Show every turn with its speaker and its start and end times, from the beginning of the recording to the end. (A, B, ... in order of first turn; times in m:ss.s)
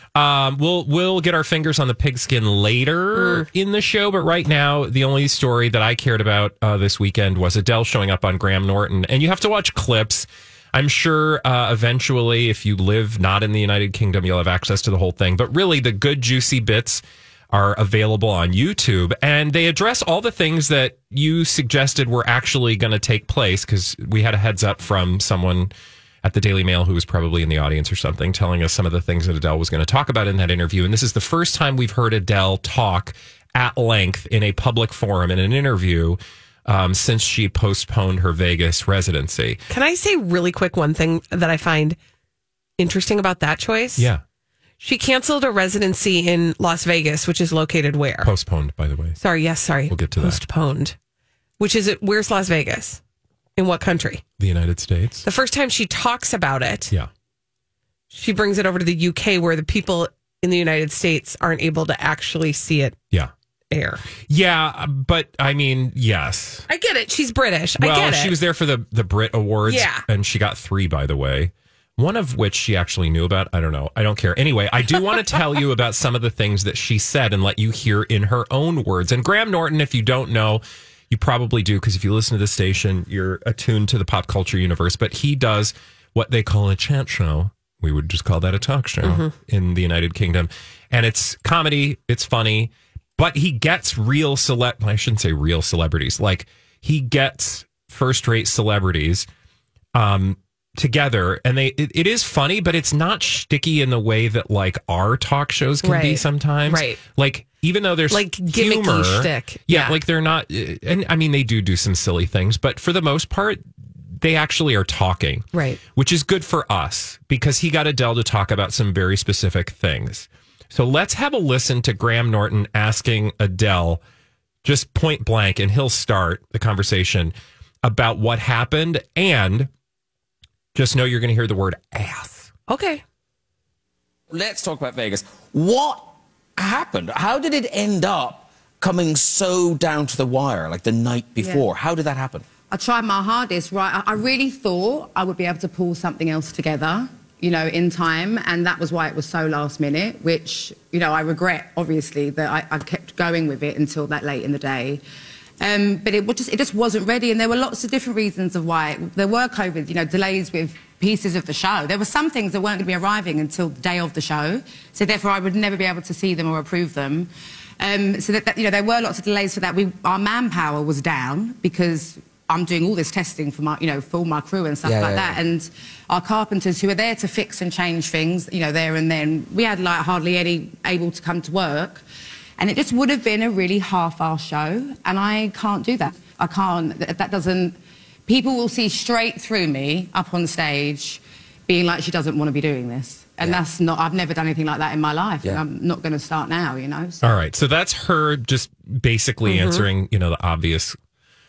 0:00.1-0:39.6 A
0:03.1-0:03.5 B
0:39.7-0:42.0 B
0:42.8-0:44.1 B
0:44.0-0:44.2 A
0:44.8-0:48.3 B
0:48.2-0:49.2 A
0:49.2-0:50.9 B
0:49.9-0:50.4 A
0:51.6-0:53.0 B
0:53.6-0:54.2 B
0:54.4-0:55.2 A
0:55.2-0:56.9 B
0:58.1-1:03.0 B
1:03.7-1:04.0 B
1:04.2-1:06.7 A
1:06.7-1:08.4 B
1:07.8-1:39.3 A
1:09.6-1:10.0 B
1:29.0-1:29.3 B
1:39.9-1:53.6 A
1:45.8-1:47.0 B
1:48.1-1:50.0 B
1:54.2-2:04.0 A
1:55.5-1:55.8 B
2:04.6-2:09.7 A
2:10.7-2:12.5 A
2:12.7-2:13.0 B
2:14.3-2:22.4 C
2:21.4-2:21.6 D
2:22.7-2:35.0 D
2:35.6-2:47.3 D
2:47.8-3:02.0 D
2:54.8-2:55.4 C
3:02.6-3:17.2 D
3:17.2-3:21.0 A
3:19.4-3:19.9 B